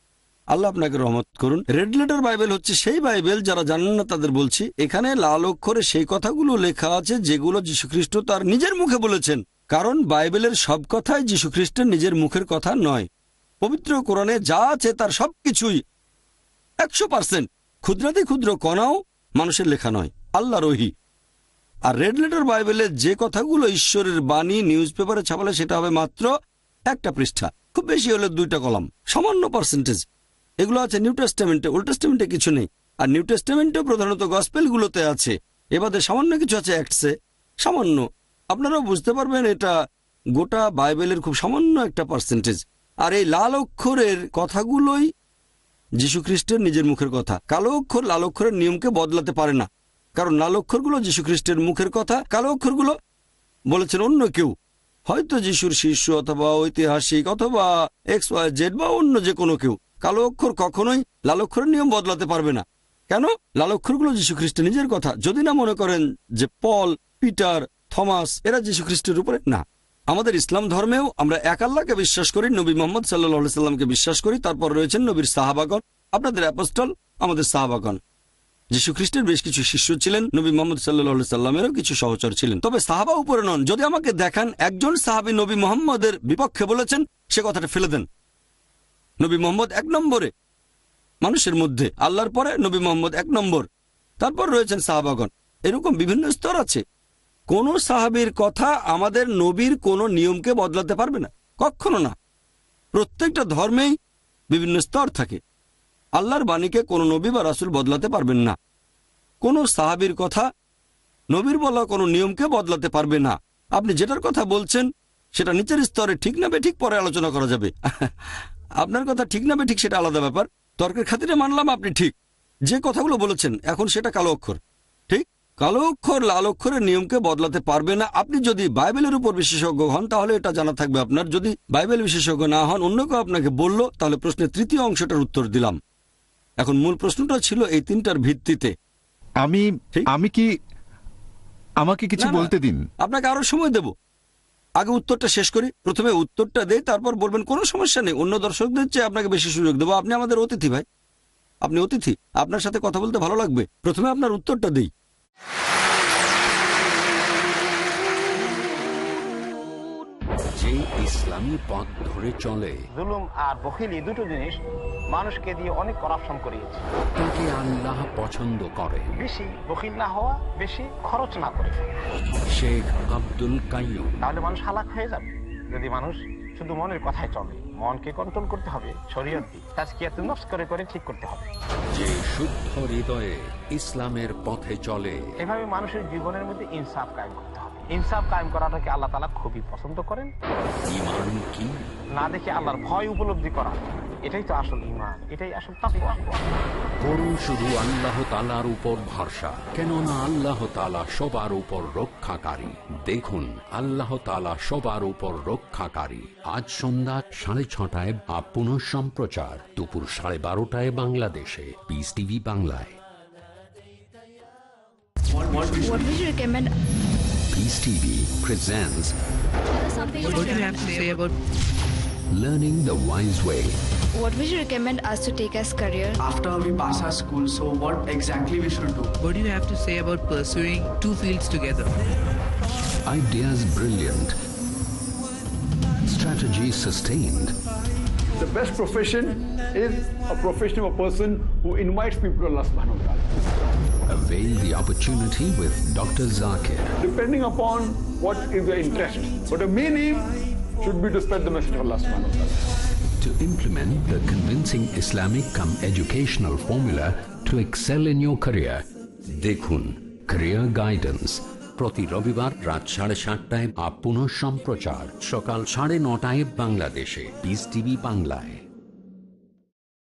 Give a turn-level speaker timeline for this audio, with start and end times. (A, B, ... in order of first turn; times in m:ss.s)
0:00.5-0:13.1 A
0:13.6-0:15.8 A
0:16.8-0:20.9 A
0:21.9-0:26.3 A
0:26.9-0:30.1 A
0:30.6-0:39.7 A
0:40.4-0:45.1 A
0:46.0-0:53.0 A
0:53.7-0:54.5 A
0:55.1-1:18.0 A
1:18.7-1:28.1 A
1:29.2-1:30.3 A
1:31.2-1:33.7 A
1:34.2-1:36.8 A
1:37.5-1:42.1 A
1:42.9-1:43.9 A
1:44.5-1:45.4 A
1:46.2-1:48.6 A
1:49.4-1:50.5 A
1:51.3-1:58.1 A
1:58.8-2:02.1 A
2:02.7-2:15.8 A
2:16.6-2:18.7 A
2:19.4-2:20.5 B
2:21.8-2:22.8 B
2:22.2-2:22.5 A
2:23.0-2:23.9 A
2:24.8-2:30.8 A
2:31.6-2:34.9 A
2:40.6-2:42.8 C
2:43.0-2:44.6 D
2:45.1-2:46.8 D
2:47.2-2:49.2 C
2:49.2-2:51.8 D
2:52.5-2:54.2 C
2:54.2-3:01.5 D
3:01.9-3:05.4 C
3:05.4-3:10.3 D
3:10.9-3:11.8 C
3:12.2-3:16.4 D
3:17.0-3:33.0 C
3:35.4-3:36.1 E
3:35.8-3:36.7 F
3:37.5-3:39.1 C
3:39.8-3:41.2 F
3:40.2-3:41.3 G
3:42.3-3:43.8 C
3:44.2-3:46.2 F
3:46.2-3:49.1 E
3:49.2-3:52.0 G
3:53.1-3:54.4 C
3:56.0-3:57.5 C
3:58.4-4:03.4 H
4:04.1-4:07.0 C
4:07.0-4:12.7 H
4:13.2-4:28.6 C